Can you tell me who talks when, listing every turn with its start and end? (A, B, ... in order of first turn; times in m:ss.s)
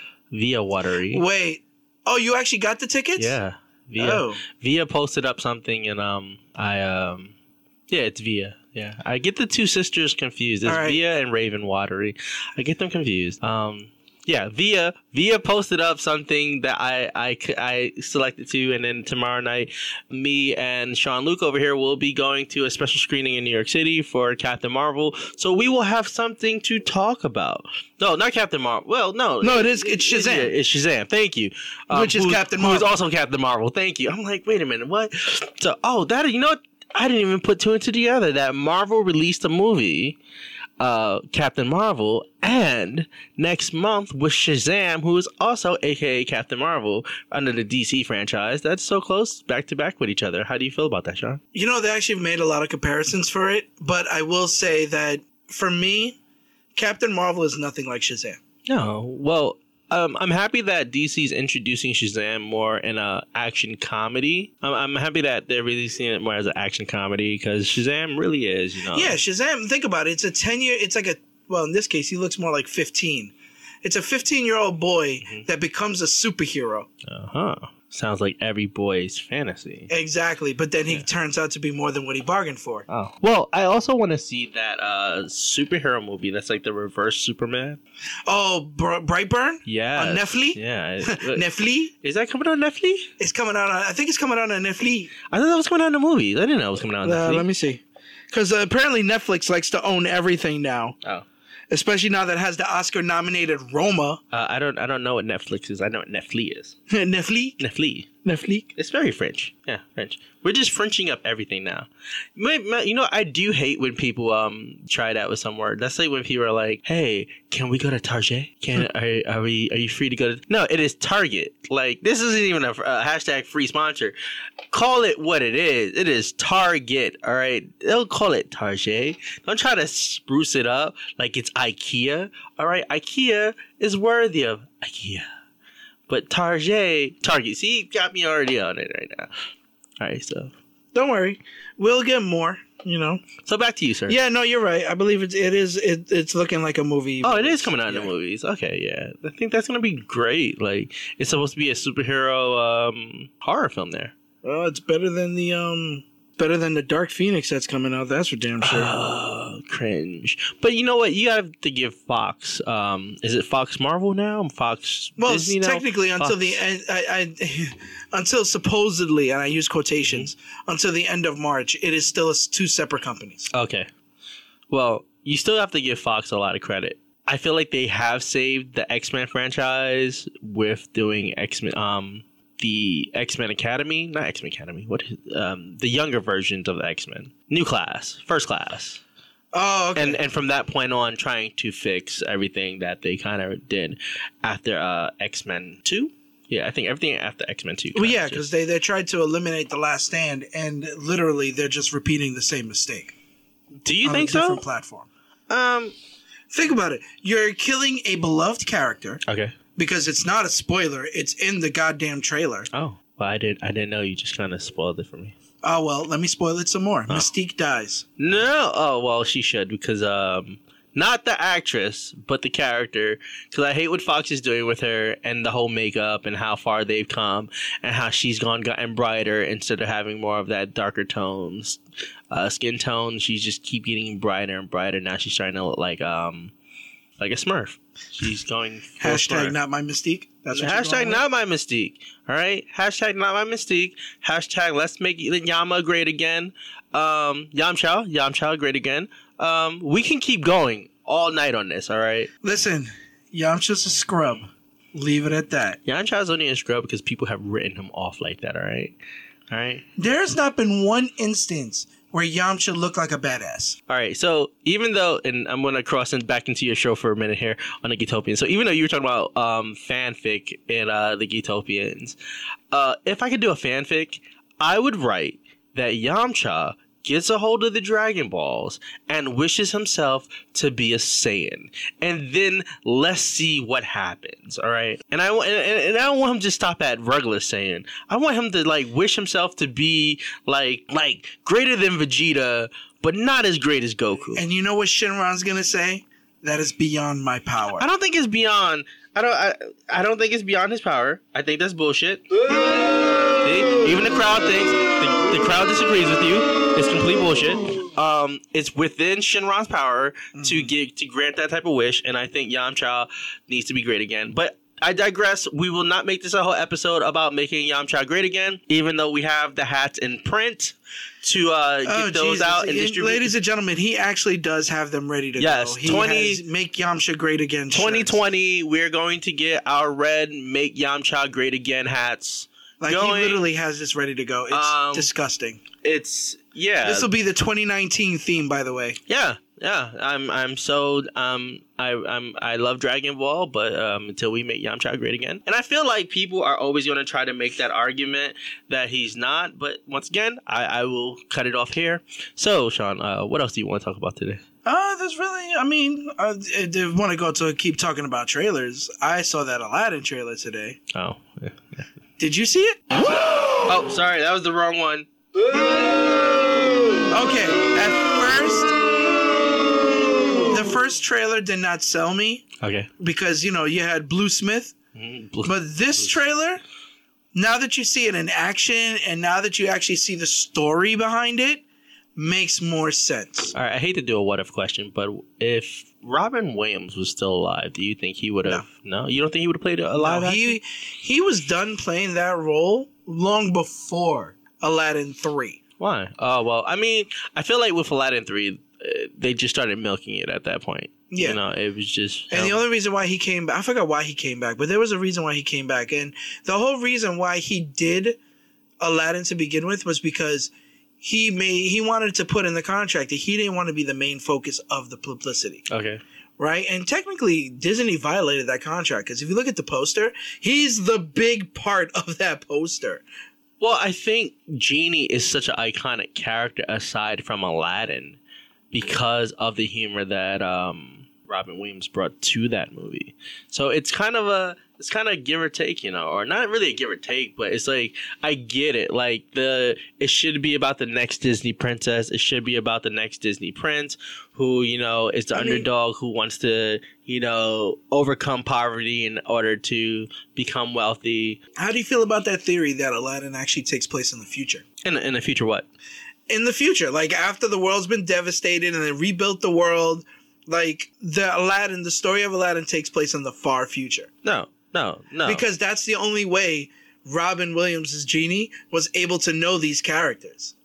0:00.3-0:01.2 A
0:01.1-0:03.4 B
0:03.2-0:07.3 A
0:04.0-0:04.4 B
0:07.9-0:40.2 A
0:10.6-0:11.0 B
0:29.4-0:30.5 B
0:31.9-0:32.9 B
0:40.8-0:51.4 A
0:51.5-0:56.2 B
0:56.8-0:58.4 B
0:58.7-1:09.2 A
1:08.9-1:13.3 B
1:13.8-1:16.9 B
1:17.0-1:19.9 A
1:19.9-1:22.9 B
1:22.9-1:27.8 A
1:28.3-1:31.9 B
1:29.6-1:31.4 A
1:32.0-1:33.1 A
1:33.2-1:35.1 B
1:35.3-1:37.4 A
1:37.0-1:41.0 B
1:41.7-1:44.2 B
1:44.3-1:46.8 A
1:46.9-1:47.6 B
1:47.6-1:48.1 A
1:48.2-1:48.7 B
1:48.8-2:04.1 A
2:04.7-2:15.3 A
2:16.1-2:19.3 A
2:20.0-2:20.5 A
2:20.9-2:23.3 B
2:23.4-2:24.2 A
2:24.1-2:28.1 B
2:27.2-2:34.2 A
2:34.4-2:39.0 B
2:38.6-2:46.6 A
2:45.2-2:53.5 B
2:53.5-2:53.9 A
2:54.7-3:09.0 A
3:09.5-3:10.2 B
3:09.9-3:18.4 A
3:17.9-3:23.1 B
3:23.8-3:24.6 A
3:24.0-3:25.1 B
3:25.5-3:25.9 A
3:26.5-3:29.2 B
3:29.2-3:29.6 A
3:29.8-3:32.7 B
3:32.7-3:35.4 A
3:35.6-3:38.0 B
3:38.2-3:51.8 A
3:52.3-3:56.5 A
3:57.2-3:59.5 A
3:59.0-4:01.2 B
4:00.5-4:12.3 A
4:12.4-4:15.8 B
4:15.8-4:19.0 A
4:19.5-4:19.8 A
4:20.0-4:23.8 B
4:23.9-4:32.2 A
4:32.7-4:54.4 A
4:54.3-4:57.8 B
4:57.8-5:02.5 A
5:03.4-5:23.3 A
5:10.3-5:10.7 B
5:21.8-5:28.2 B
5:25.4-5:26.4 A
5:27.7-5:33.4 A
5:32.8-5:35.6 B
5:34.5-5:35.1 A
5:35.8-5:37.1 A
5:36.8-5:39.0 B
5:39.1-5:54.4 A
5:54.6-6:00.8 B
6:00.9-6:01.8 A
6:02.2-6:02.9 B
6:03.6-6:05.1 A
6:07.1-6:08.8 B
6:10.4-6:14.7 B
6:12.6-6:12.9 A
6:14.9-6:16.2 A
6:15.4-6:16.6 B
6:17.3-6:21.6 B
6:22.2-6:23.5 B
6:23.5-6:30.6 A
6:30.0-6:35.6 B
6:35.8-6:42.6 A
6:41.1-6:41.4 B
6:42.3-6:48.2 B
6:48.8-6:55.7 B
6:55.7-6:56.0 A
6:56.4-7:03.0 B
7:03.6-7:08.2 A
7:08.7-7:31.4 A
7:25.3-7:25.6 B
7:31.6-7:34.6 B
7:34.8-7:35.7 A
7:36.3-7:44.1 B
7:44.2-7:45.4 A
7:45.2-7:50.5 B